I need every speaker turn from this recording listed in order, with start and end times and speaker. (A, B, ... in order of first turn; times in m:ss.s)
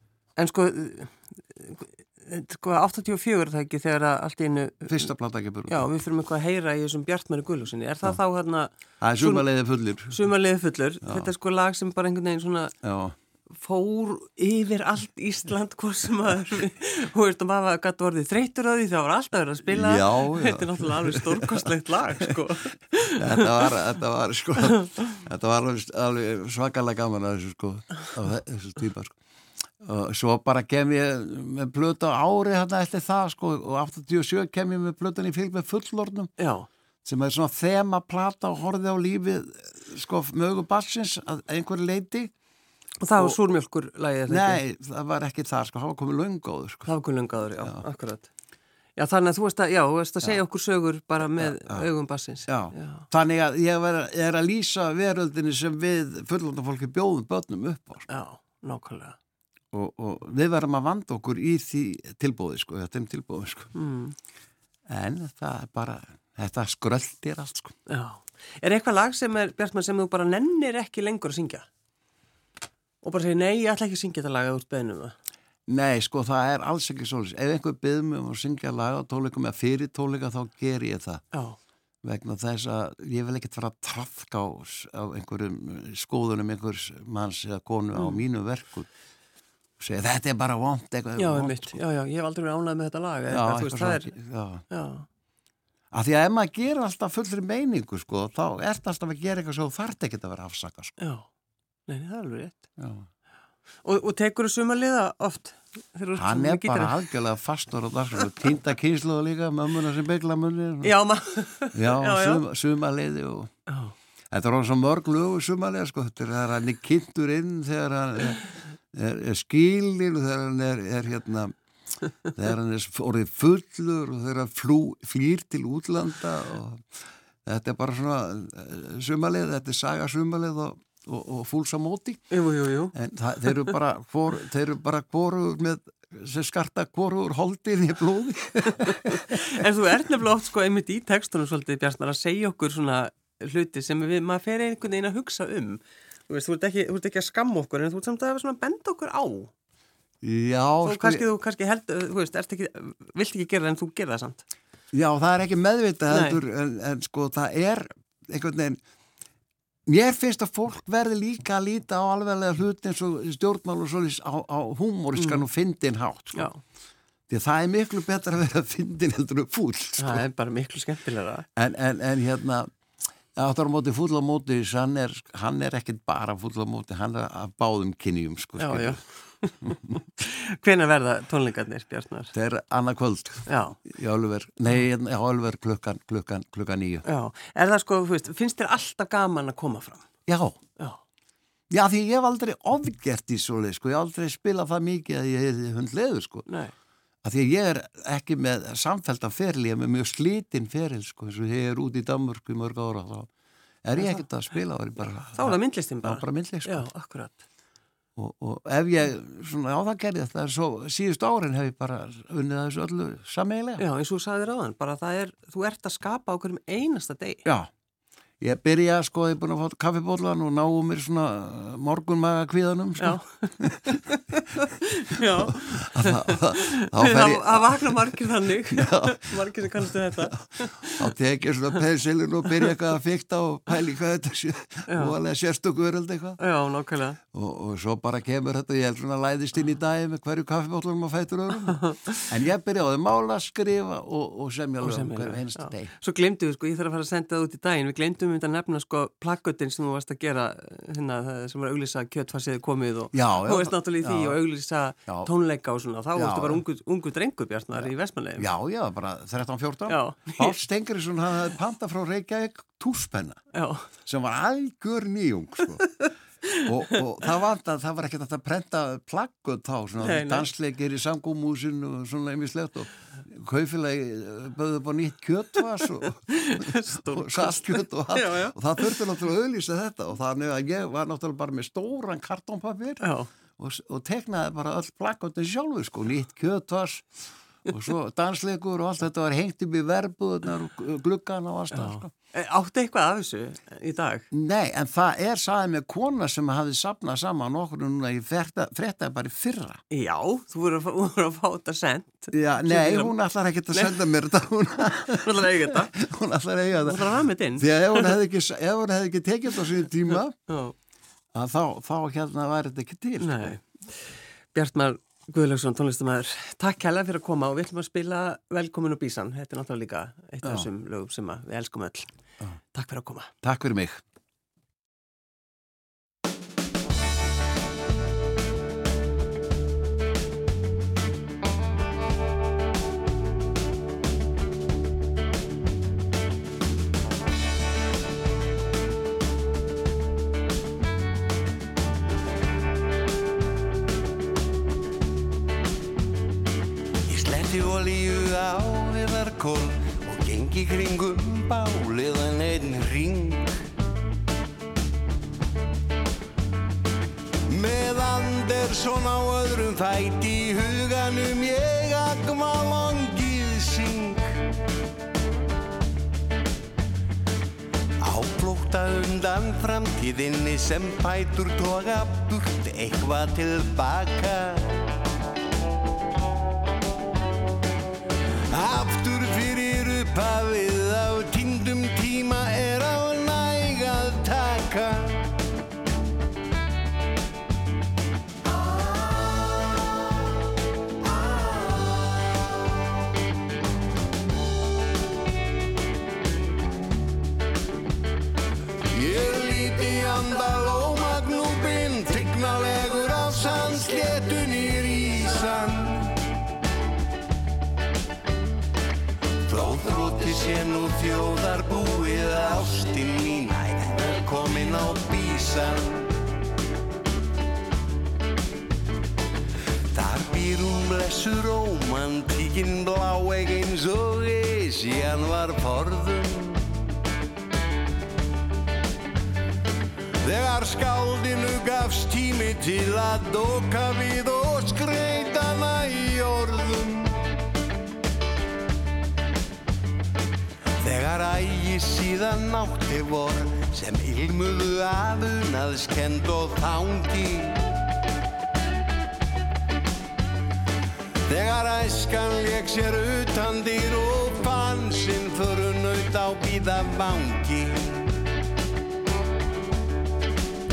0:00.4-0:05.1 A
0:04.9-0:05.9 B
0:05.7-0:09.5 A
0:09.0-0:10.2 B
0:10.1-0:12.8 A
0:11.0-0:11.3 B
0:12.8-0:13.2 B
0:13.5-0:23.6 A
0:19.7-0:21.7 B
0:23.1-0:29.2 B
0:29.8-0:36.3 B
0:36.4-0:36.7 A
0:37.0-0:42.3 B
0:43.0-0:44.6 A
0:44.3-0:46.9 B
0:46.9-0:48.3 A
0:49.0-0:53.1 A
0:51.3-0:51.9 B
0:52.5-0:58.1 B
0:58.1-0:59.2 A
0:59.7-1:03.7 B
1:03.8-1:04.2 A
1:04.9-1:07.8 B
1:07.9-1:11.7 A
1:13.0-1:15.2 A
1:15.7-1:21.2 B
1:21.3-1:21.6 A
1:22.0-1:28.9 B
1:29.8-1:31.8 B
1:31.2-1:34.1 A
1:33.3-1:34.6 B
1:34.7-1:35.1 A
1:35.9-1:41.0 B
1:41.0-1:41.3 A
1:41.9-1:42.6 A
1:42.8-1:43.1 B
1:43.8-1:47.0 A
1:46.2-1:51.0 B
1:50.8-1:52.4 A
1:51.7-1:53.5 B
1:53.7-1:53.9 A
1:54.3-2:01.5 B
2:02.2-2:12.2 B
2:12.3-2:12.9 A
2:12.9-2:19.4 B
2:19.1-2:29.5 A
2:30.2-2:31.2 B
2:30.8-2:34.4 A
2:34.9-2:38.8 B
2:36.1-2:36.4 A
2:39.9-2:46.5 B
2:45.2-2:45.4 A
2:46.4-2:46.6 A
2:47.3-2:50.2 B
2:50.0-2:51.5 A
2:51.6-2:52.7 B
2:53.4-2:59.0 B
2:58.6-3:02.3 A
2:59.6-2:59.9 B
3:02.3-3:07.0 B
3:03.5-3:03.8 A
3:07.0-3:10.1 A
3:10.3-3:10.6 B
3:11.7-3:16.5 B
3:16.5-3:16.7 A
3:17.2-3:23.3 B
3:23.8-3:26.9 B
3:24.0-3:24.2 A
3:25.2-3:27.4 A
3:28.2-3:33.8 B
3:33.8-3:37.5 A
3:38.4-3:44.0 B
3:43.0-3:51.1 A
3:45.1-3:48.2 B
3:48.7-3:49.4 B
3:50.3-3:56.4 B
3:54.9-3:55.2 A
3:56.4-3:57.2 A
3:57.3-4:05.9 B
4:01.6-4:02.3 A
4:04.8-4:18.5 A
4:13.1-4:14.4 B
4:16.2-4:16.6 B
4:18.4-4:23.4 B
4:19.9-4:20.6 A
4:23.5-4:23.9 A
4:24.0-4:25.9 B
4:26.6-4:43.0 B
4:30.0-4:30.5 A
4:36.3-4:39.0 A
4:43.0-4:43.3 A
4:43.6-4:52.1 B
4:51.7-4:54.3 A
4:54.3-4:59.8 B
4:59.9-5:03.2 A
5:02.3-5:10.4 B
5:05.1-5:05.9 A
5:06.8-5:08.2 A
5:10.5-5:10.8 A
5:11.3-5:13.6 B
5:13.2-5:22.1 A
5:22.7-5:23.3 A
5:23.4-5:24.0 B
5:47.1-5:53.6 C
5:57.5-6:04.4 C
6:08.0-6:14.8 C
6:18.5-6:25.3 C
6:38.9-6:46.2 C
6:49.4-6:56.1 C
6:59.9-7:06.8 C
7:10.2-7:17.2 C
7:20.8-7:27.7 C
7:31.3-7:38.1 C